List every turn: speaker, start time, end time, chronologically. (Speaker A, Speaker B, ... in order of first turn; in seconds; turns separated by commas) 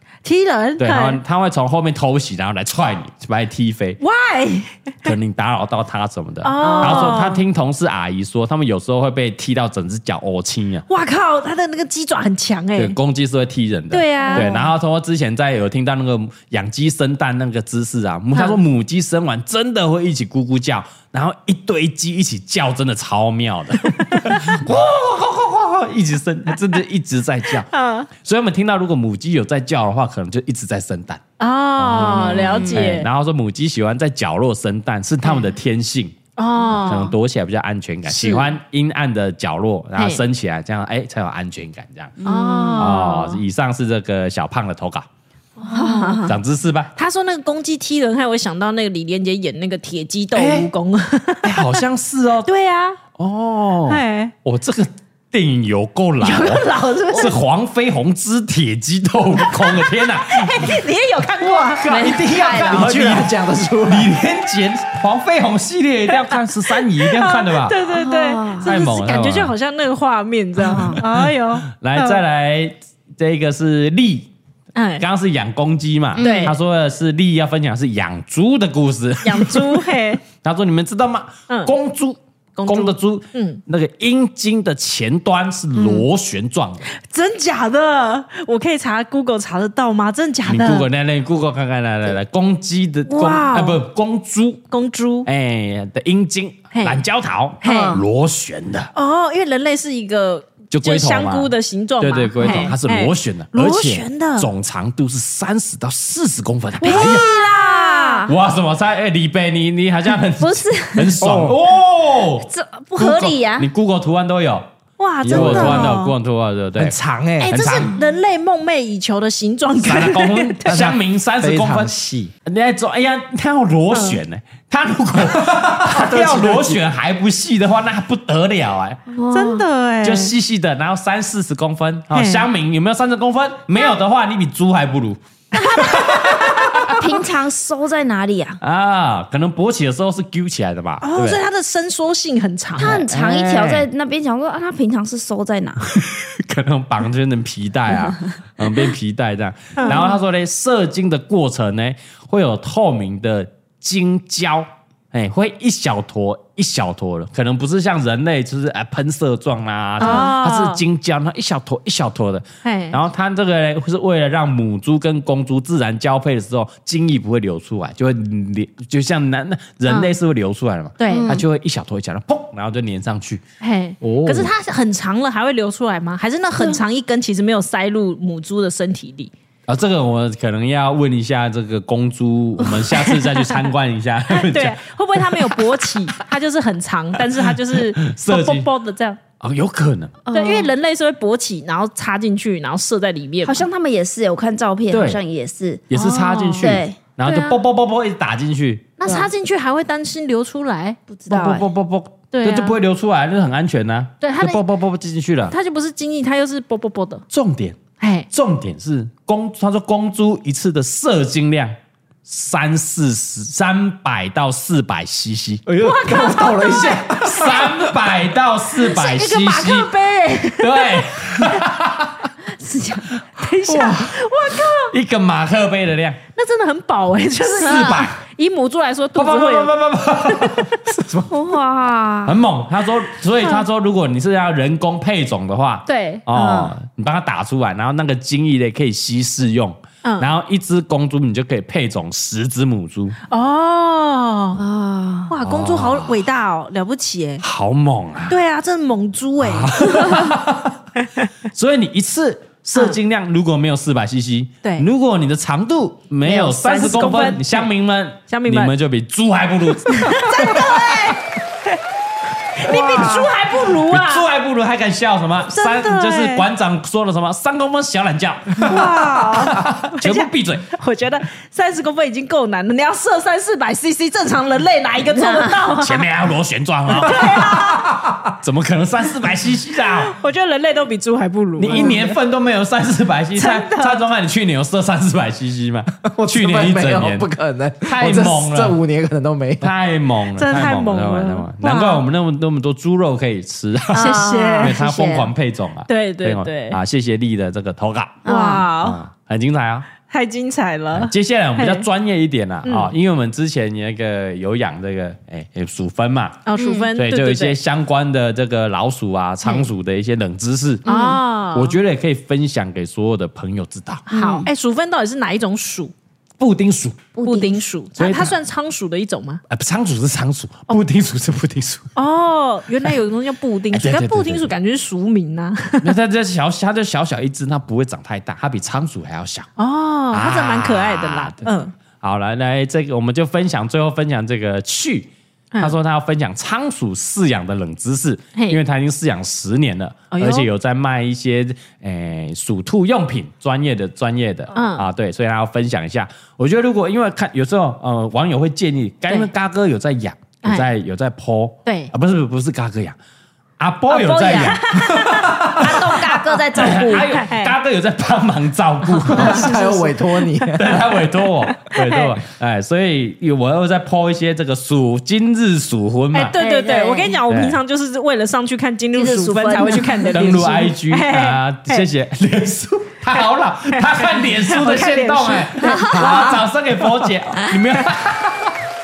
Speaker A: 0.2-1.2, Speaker B: 0.8-4.0, Speaker A: 4.0-5.1, Speaker B: 5.0-10.8, Speaker A: 6.4-7.4, Speaker C: 6.6-7.2, Speaker A: 10.9-12.9, Speaker B: 12.8-27.7, Speaker A: 13.9-14.6, Speaker C: 14.2-14.6, Speaker A: 24.1-24.4, Speaker A: 27.6-28.1, Speaker B: 28.2-31.2, Speaker A: 31.4-33.1, Speaker B: 31.8-36.1, Speaker C: 32.1-32.8, Speaker A: 36.4-37.1, Speaker C: 36.6-37.0, Speaker B: 36.7-42.1, Speaker A: 38.1-38.5, Speaker A: 40.0-40.2, Speaker C: 42.2-43.0, Speaker A: 42.2-43.4, Speaker B: 42.8-45.1, Speaker A: 45.6-46.3, Speaker C: 45.6-46.3, Speaker B: 46.2-46.9, Speaker A: 47.0-51.8, Speaker B: 50.3-50.7, Speaker B: 51.4-52.5, Speaker A: 52.5-53.0, Speaker B: 53.1-60.8, Speaker A: 53.9-54.3, Speaker A: 56.2-57.3, Speaker A: 59.4-61.9, Speaker B: 61.6-63.3, Speaker C: 61.8-62.9, Speaker D: 61.9-64.2, Speaker B: 63.9-67.8, Speaker A: 66.1-72.2, Speaker C: 67.9-68.7, Speaker B: 68.6-69.5, Speaker C: 70.7-71.0, Speaker B: 70.7-71.1, Speaker B: 71.7-74.3, Speaker A: 74.7-75.0, Speaker B: 75.0-86.8, Speaker C: 76.2-76.5, Speaker A: 76.2-76.5, Speaker A: 79.2-80.2, Speaker A: 81.5-81.7, Speaker A: 82.6-83.6, Speaker C: 85.7-86.0, Speaker A: 86.9-90.9, Speaker B: 90.4-94.6, Speaker A: 93.1-93.8, Speaker A: 94.7-95.3, Speaker B: 95.2-98.9, Speaker A: 96.7-97.0, Speaker A: 97.6-98.0, Speaker C: 97.6-98.0, Speaker A: 98.9-104.5, Speaker B: 100.7-107.2, Speaker C: 102.4-102.7, Speaker A: 106.8-108.2, Speaker C: 106.8-108.3, Speaker B: 108.3-114.6, Speaker C: 110.4-111.5, Speaker D: 111.2-111.6, Speaker C: 112.3-113.7, Speaker A: 115.0-116.1, Speaker D: 115.2-116.0, Speaker B: 115.2-117.9, Speaker D: 116.8-117.6, Speaker A: 117.4-120.6, Speaker B: 119.8-121.9, Speaker D: 120.6-122.3, Speaker B: 122.4-129.0, Speaker A: 123.9-124.2, Speaker D: 125.2-126.8, Speaker C: 129.1-129.6, Speaker A: 129.3-130.3, Speaker B: 130.0-136.9, Speaker A: 132.1-132.4, Speaker C: 135.5-138.6, Speaker B: 138.6-141.4, Speaker A: 141.0-143.1, Speaker C: 142.8-145.9, Speaker B: 143.1-143.9, Speaker B: 145.9-173.4, Speaker A: 149.8-150.1, Speaker A: 160.0-160.8, Speaker C: 160.0-160.3, Speaker A: 162.6-163.0, Speaker A: 169.9-170.1, Speaker A: 171.0-171.3, Speaker C: 171.1-171.4, Speaker A: 173.6-179.3, Speaker B: 174.0-174.5, Speaker B: 179.7-185.6, Speaker A: 182.6-183.5, Speaker A: 184.3-189.2, Speaker B: 187.4-188.7, Speaker B: 189.4-190.2, Speaker C: 190.2-190.7, Speaker A: 190.3-193.6, Speaker C: 193.4-195.8, Speaker B: 194.9-195.2, Speaker B: 195.9-199.0, Speaker A: 195.9-197.6, Speaker C: 196.6-197.0, Speaker A: 199.0-201.0, Speaker C: 199.0-199.3, Speaker C: 201.1-201.7, Speaker B: 201.3-205.5, Speaker A: 202.3-202.8, Speaker A: 204.2-204.6, Speaker A: 205.5-207.2, Speaker B: 207.3-207.8, Speaker A: 208.0-208.3, Speaker B: 208.3-215.6, Speaker D: 215.7-217.8, Speaker A: 215.8-217.6, Speaker B: 217.2-219.9, Speaker A: 218.8-221.6, Speaker B: 220.6-222.3, Speaker C: 222.6-223.1, Speaker A: 223.4-224.9, Speaker B: 223.7-224.1, Speaker B: 224.9-226.2, Speaker A: 226.3-229.7, Speaker B: 227.4-228.2, Speaker C: 227.6-228.0, Speaker B: 229.2-231.0, Speaker D: 230.9-231.3, Speaker C: 231.3-232.4, Speaker B: 232.2-243.2, Speaker A: 235.9-236.2, Speaker C: 236.3-236.7, Speaker A: 240.0-240.3, Speaker A: 243.3-244.6, Speaker C: 244.6-245.3, Speaker A: 245.3-247.4, Speaker B: 245.4-246.2, Speaker B: 247.4-248.3, Speaker A: 248.3-250.2, Speaker B: 249.4-250.8, Speaker A: 251.0-251.3, Speaker B: 251.5-261.0, Speaker A: 256.2-257.7, Speaker C: 256.3-257.2, Speaker A: 258.3-258.7, Speaker A: 259.9-261.8, Speaker A: 262.5-264.2, Speaker B: 262.7-270.6, Speaker C: 262.7-263.2, Speaker A: 265.5-266.5, Speaker A: 268.6-276.1, Speaker C: 275.1-275.6, Speaker B: 275.8-277.6, Speaker A: 276.9-277.9, Speaker D: 277.9-278.3, Speaker B: 278.4-280.1, Speaker A: 280.0-282.2, Speaker B: 281.6-287.3, Speaker A: 283.4-284.0, Speaker D: 286.0-289.7, Speaker B: 287.8-288.8, Speaker B: 289.6-298.2, Speaker A: 290.4-292.0, Speaker C: 293.9-295.3, Speaker A: 293.9-294.8, Speaker A: 295.9-296.8, Speaker C: 298.2-298.6, Speaker A: 298.2-299.0, Speaker B: 298.8-299.9, Speaker A: 300.1-301.8, Speaker B: 300.9-306.4, Speaker A: 302.6-302.9, Speaker A: 306.4-307.6, Speaker C: 306.6-306.9, Speaker B: 306.9-310.8, Speaker A: 310.8-311.8, Speaker C: 310.9-311.2, Speaker B: 311.5-314.0, Speaker A: 314.1-315.9, Speaker C: 314.1-314.5, Speaker B: 316.4-317.1, Speaker C: 317.1-317.6, Speaker A: 317.2-319.4, Speaker B: 318.0-318.4, Speaker B: 319.5-321.9, Speaker A: 321.9-325.9, Speaker B: 323.7-324.5, Speaker B: 325.8-329.5, Speaker A: 329.6-331.7, Speaker B: 330.1-331.5, Speaker B: 332.0-352.9, Speaker A: 340.1-340.5, Speaker A: 344.5-344.9, Speaker A: 351.6-351.9, Speaker B: 353.6-359.5, Speaker C: 353.9-357.0, Speaker A: 356.6-357.5, Speaker A: 358.9-360.4, Speaker D: 359.1-360.9, Speaker B: 360.5-366.3, Speaker A: 361.6-362.1, Speaker A: 366.1-371.9, Speaker C: 366.3-367.2, Speaker B: 367.3-367.6, Speaker C: 368.9-370.7, Speaker B: 370.1-378.5, Speaker A: 373.1-375.9, Speaker C: 375.6-376.2, Speaker D: 375.9-376.5